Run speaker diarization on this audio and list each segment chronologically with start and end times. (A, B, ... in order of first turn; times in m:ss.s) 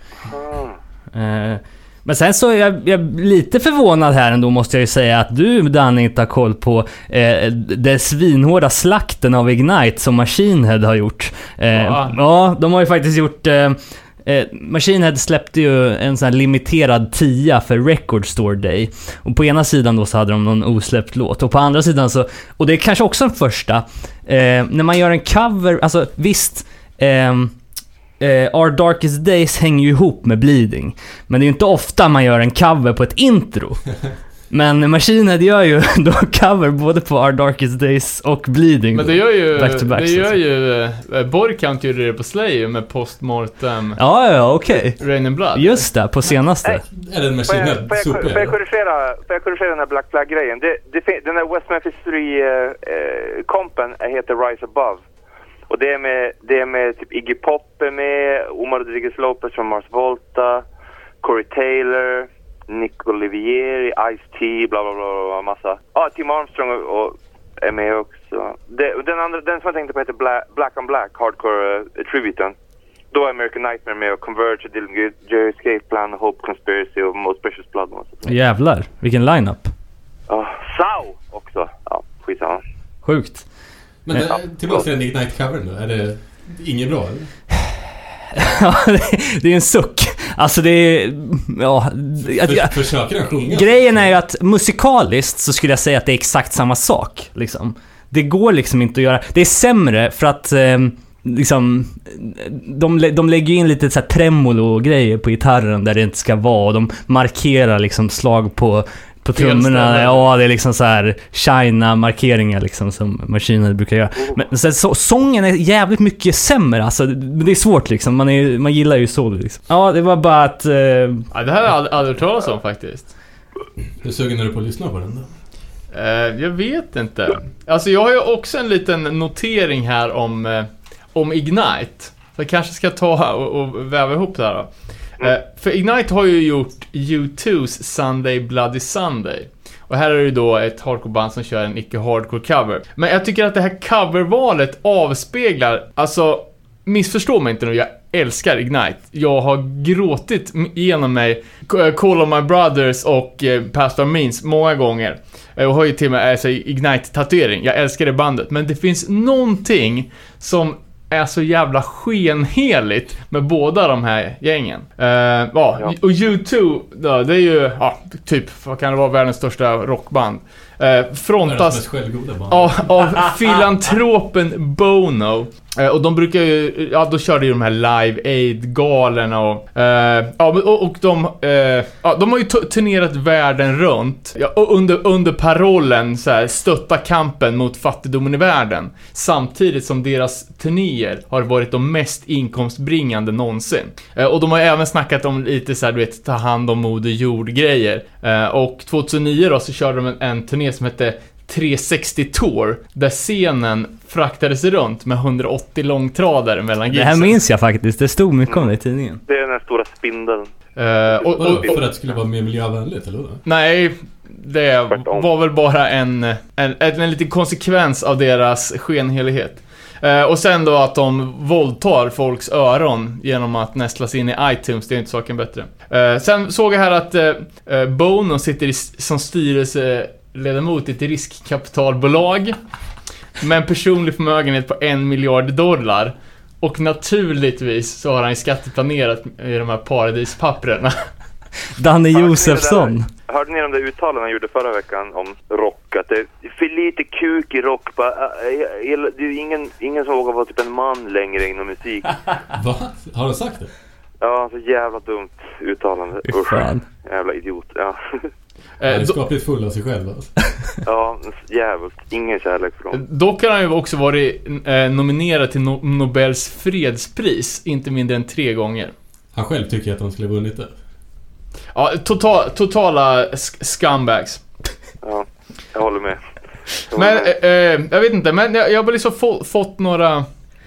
0:00.3-0:00.8 A
0:01.1-0:27.6 B
0:11.7-0:12.2 C
0:28.2-0:40.4 B
0:38.9-0:44.0 C
0:44.0-0:46.8 B
0:45.0-0:45.9 C
0:46.8-0:48.6 D
0:47.4-0:55.0 A
0:55.7-1:00.6 A
1:01.2-1:12.6 A
1:13.1-1:18.3 A
1:18.3-1:19.7 B
1:20.3-1:22.6 A
1:23.0-1:24.3 B
1:24.1-1:27.4 D
1:28.4-2:01.3 B
1:32.2-1:34.1 D
1:49.4-1:50.3 C
2:01.3-2:03.2 C
2:04.0-2:05.3 D
2:05.9-3:27.4 C
2:51.4-2:53.2 D
3:26.9-3:29.2 B
3:29.3-3:30.5 A
3:30.8-3:31.8 C
3:31.1-3:31.9 A
3:31.4-3:33.4 D
3:33.4-3:52.6 C
3:34.9-3:35.3 A
3:53.4-4:01.1 C
4:01.8-4:03.1 B
4:02.1-4:12.3 A
4:12.5-4:13.7 D
4:14.2-4:18.3 A
4:16.2-4:16.8 B
4:18.8-4:19.2 C
4:18.9-4:20.5 D
4:20.8-4:23.0 A
4:22.9-4:28.9 C
4:29.3-4:30.8 D
4:31.7-4:34.4 C
4:35.0-4:36.2 A
4:36.9-4:37.3 A
4:36.9-4:40.3 C